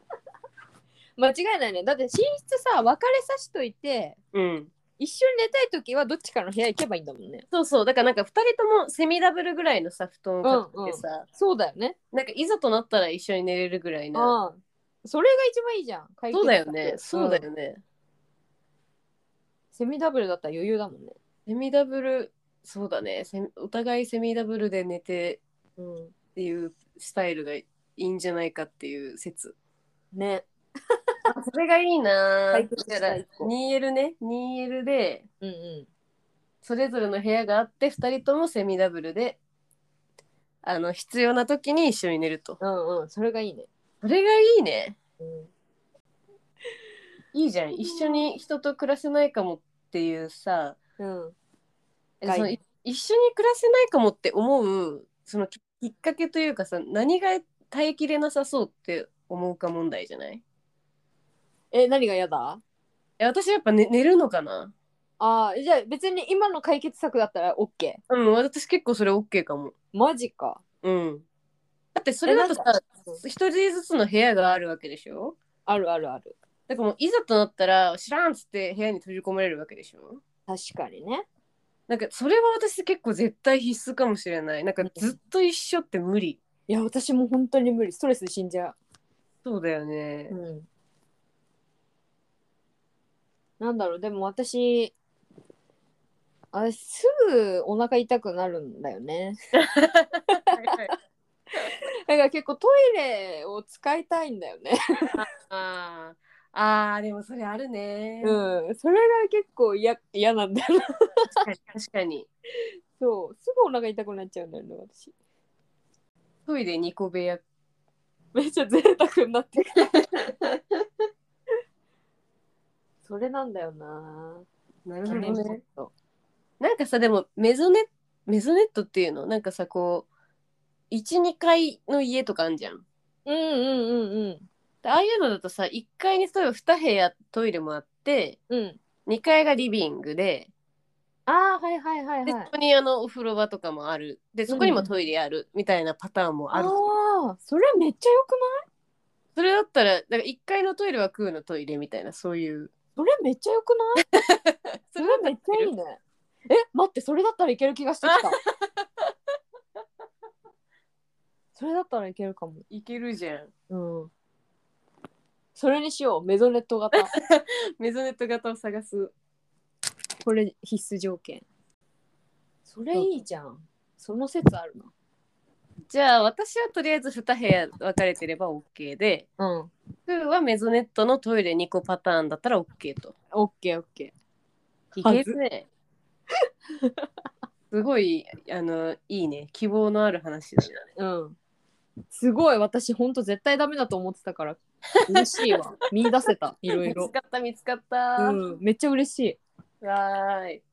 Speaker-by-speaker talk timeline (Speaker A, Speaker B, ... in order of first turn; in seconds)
Speaker A: 1.2-4.2, 5.0-7.5, 10.4-11.9, 14.1-17.4, 19.7-21.2, 25.8-26.1, 30.1-30.4, 32.5-33.5, 35.4-35.9, 42.6-43.7, 45.2-45.5, 47.9-48.2, 51.0-51.3, 52.2-52.5, 61.7-62.6, 65.2-68.0, 69.9-70.6, 72.2-73.2, 75.7-76.3, 80.5-81.2, 84.8-85.1, 86.7-88.7, 90.3-90.7, 93.6-94.9, 96.5-99.4, 100.3-100.7, 101.6-104.7, 108.2-111.4, 113.0-115.1, 118.3-120.0, 123.0-124.4, 125.1-125.9, 133.2-134.4, 138.5-138.8, 141.3-142.5, 144.5-144.9, 146.5-148.6, 152.9-154.0, 155.0-158.4, 161.5-162.7, 163.7-164.1, 165.5-167.1, 170.2-171.4, 172.7-174.9, 179.4-179.7, 183.3-184.1, 185.0-185.3, 191.0-191.3, 192.1-197.1, 198.2-199.4
Speaker B: 4.3-4.7, 7.5-11.2, 12.1-14.4, 16.3-17.8, 21.5-25.4, 26.4-29.6, 31.3-35.3, 36.6-39.4, 40.6-42.6, 44.0-45.0, 47.3-50.8, 52.2-60.4, 63.2-64.7, 68.1-69.7, 70.8-71.2, 71.9-75.4, 76.7-80.2, 81.9-86.4, 89.4-90.3, 99.6-100.9, 105.1-108.4, 111.4-112.3, 116.5-117.4, 119.8-120.3, 124.8-125.6, 126.6-130.1, 130.9-132.8, 134.8-138.4, 139.1-140.5, 142.2-146.8, 149.3-152.7, 154.2-155.7, 158.0-159.1, 162.7-163.5, 167.0-169.1, 175.9-179.3, 180.1-183.1, 184.9-185.7, 187.7-190.9, 195.1-195.6, 196.7-198.4, 199.8-200.6